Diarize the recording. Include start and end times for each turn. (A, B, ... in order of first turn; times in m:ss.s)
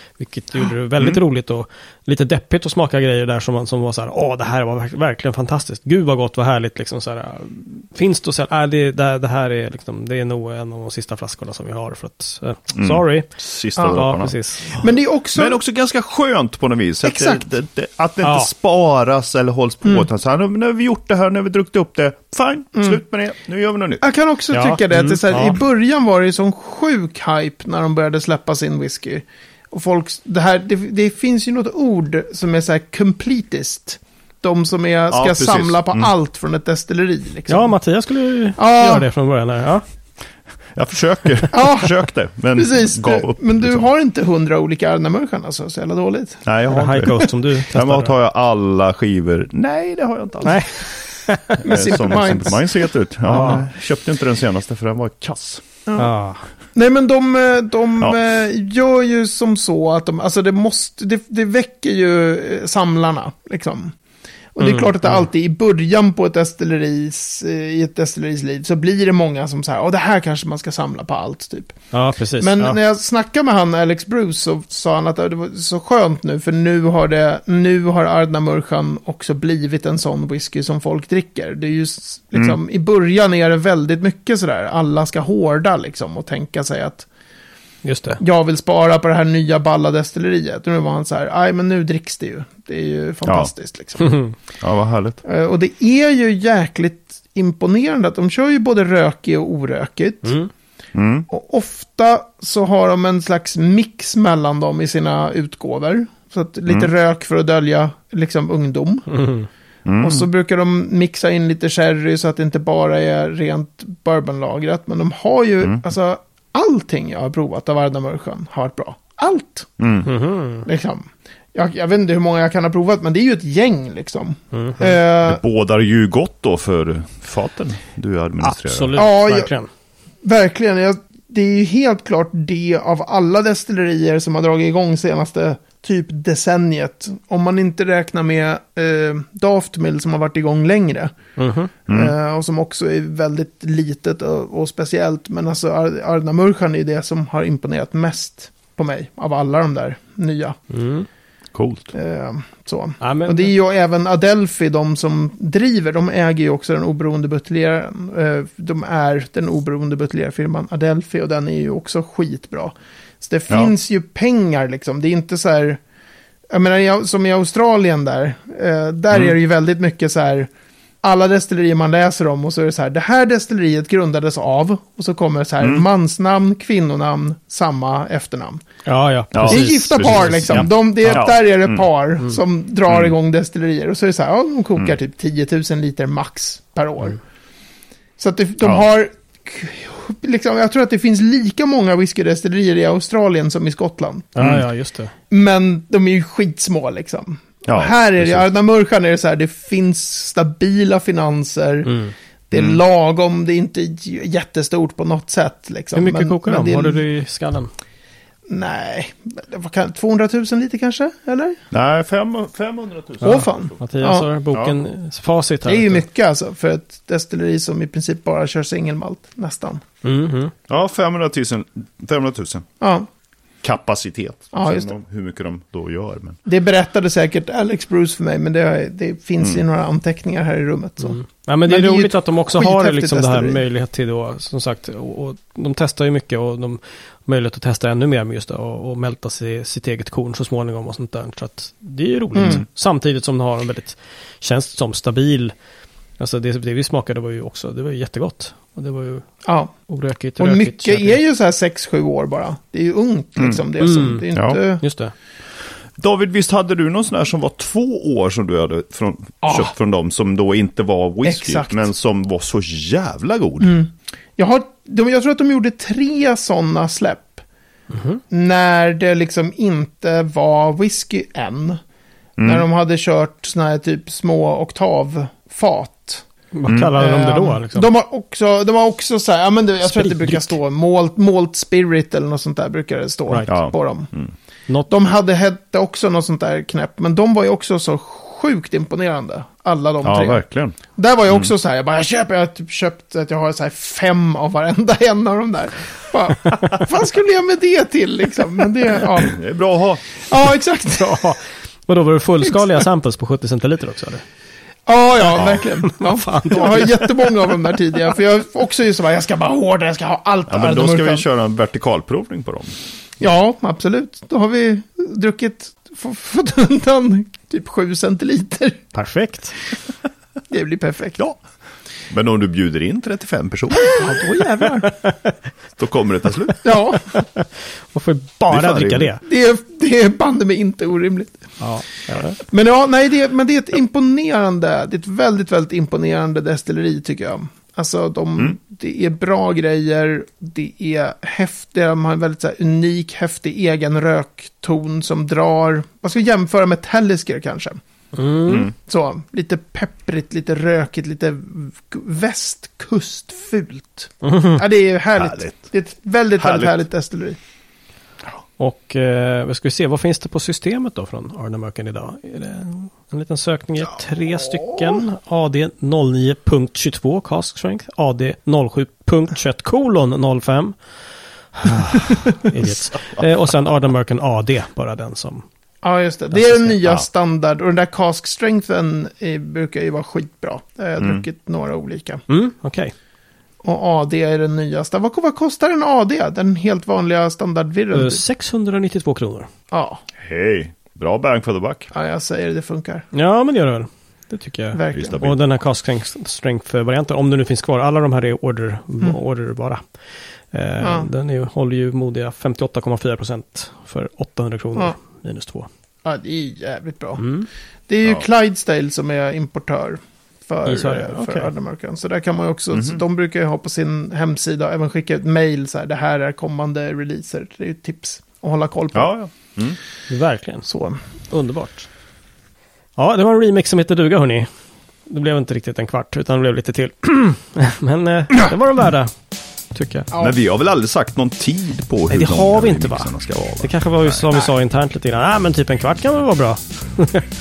0:00.2-0:14.7 A
0:12.8-0:24.0 B
0:13.8-0:14.0 C
0:14.7-0:15.6 C
0:17.0-0:17.4 C
0:18.2-0:18.5 A
0:22.8-0:23.0 C
0:24.0-0:37.8 C
0:24.5-0:25.6 A
0:35.1-0:36.1 B
0:37.5-0:39.8 A
0:38.6-0:39.1 C
0:40.8-0:43.8 B
0:41.5-0:46.4 C
0:46.4-0:50.7 B
0:46.7-0:48.1 A
0:50.4-0:51.9 A
0:51.6-0:52.8 C
0:51.6-0:55.6 B
0:53.3-0:53.6 A
0:53.4-0:53.6 C
0:55.9-0:56.1 C
0:56.0-0:56.4 A
0:56.8-1:04.0 C
1:04.6-1:11.8 C
1:04.6-1:05.3 A
1:11.9-1:12.8 A
1:12.4-1:27.1 C
1:27.8-1:28.2 A
1:28.2-1:34.2 C
1:34.0-1:34.3 A
1:34.6-1:35.2 B
1:35.2-1:40.4 C
1:40.2-1:40.5 A
1:40.9-1:41.3 B
1:41.3-1:49.1 C
1:49.1-1:49.5 A
1:49.9-1:50.3 B
1:50.0-1:59.7 C
1:59.8-2:00.1 B
2:00.0-2:00.6 A
2:00.6-2:05.4 C
2:04.5-2:04.9 A
2:05.1-2:09.0 B
2:08.4-2:09.7 A
2:08.9-2:09.5 C
2:10.2-2:21.1 C
2:21.4-2:21.7 A
2:21.9-2:30.6 C
2:21.9-2:22.1 B
2:30.7-2:31.1 A
2:31.5-2:31.9 B
2:31.9-2:45.8 C
2:33.0-2:33.5 A
2:43.5-2:43.7 B
2:46.5-2:50.5 C
2:51.0-2:58.6 C
2:55.6-2:55.8 B
2:58.9-3:01.2 A
2:59.3-3:01.8 B
2:59.5-3:07.2 C
3:02.9-3:03.1 B
3:08.2-3:14.4 C
3:14.4-3:15.1 A
3:15.3-3:21.9 C
3:17.7-3:18.4 B
3:21.9-3:22.1 A
3:22.5-3:27.0 C
3:26.0-3:27.7 A
3:28.5-3:31.6 C
3:31.7-3:33.7 B
3:33.2-3:34.3 C
3:33.2-3:36.0 A
3:34.5-3:34.8 B
3:35.7-3:39.8 C
3:40.0-3:40.5 A
3:40.7-3:42.7 B
3:42.8-3:43.1 C
3:43.6-3:46.4 B
3:44.5-3:44.9 C
3:46.5-3:53.6 C
3:51.0-4:05.5 A
4:02.4-4:02.6 C
4:06.2-4:09.3 A
4:09.4-4:09.7 C
4:09.9-4:11.2 A
4:10.4-4:14.8 C
4:13.8-4:14.2 A
4:14.4-4:14.6 B
4:14.8-4:15.1 A
4:16.0-4:23.8 B
4:19.4-4:19.7 C
4:21.2-4:21.9 C
4:23.6-4:27.4 C
4:27.9-4:28.2 A
4:28.3-4:31.8 C
4:32.4-4:32.7 B
4:32.4-4:36.2 C
4:36.5-4:37.9 A
4:36.7-4:36.9 B
4:36.9-4:44.1 C
4:39.8-4:40.6 A
4:43.5-4:44.3 B
4:44.9-4:59.4 C
4:50.0-4:50.8 B
4:59.2-5:00.0 B
5:00.3-5:01.2 C
5:00.9-5:04.2 A
5:04.9-5:11.2 C
5:05.4-5:05.6 B
5:05.8-5:07.3 A
5:10.5-5:12.8 B
5:13.2-5:18.9 C
5:18.9-5:19.6 A
5:20.5-5:21.2 C
5:22.1-5:24.1 B
5:23.8-5:24.9 C
5:24.8-5:25.3 A
5:25.8-5:26.6 B
5:26.6-5:27.1 C
5:27.1-5:29.2 A
5:28.5-5:29.1 B
5:29.2-5:31.4 C
5:31.6-5:32.4 A
5:32.4-5:47.8 C
5:48.1-5:48.7 A
5:48.5-5:48.7 B
5:48.5-5:57.4 C
5:54.2-5:54.6 A
5:55.1-5:55.7 B
5:56.4-5:56.8 B
5:58.6-6:10.8 A
6:04.5-6:05.0 C
6:11.5-6:15.4 A
6:15.8-6:22.2 C
6:16.3-6:16.7 A
6:21.0-6:21.2 B
6:22.3-6:22.9 A
6:23.6-6:28.2 C
6:27.9-6:29.5 A
6:29.7-6:30.0 C
6:30.2-6:31.9 B
6:31.9-6:33.1 C
6:33.1-6:39.8 A
6:34.7-6:35.2 C
6:34.9-6:35.4 B
6:40.5-6:45.7 A
6:40.8-6:41.1 C
6:46.0-6:47.3 C
6:47.2-6:47.5 A
6:47.9-6:59.1 C
6:50.7-6:51.5 A
6:52.7-6:53.0 B
6:58.9-6:59.8 B
7:00.1-7:00.7 A
7:00.7-7:01.0 C
7:01.3-7:01.9 A
7:03.0-7:04.5 A
7:05.1-7:09.1 A
7:09.7-7:10.1 A
7:10.2-7:14.3 B
7:12.1-7:17.3 A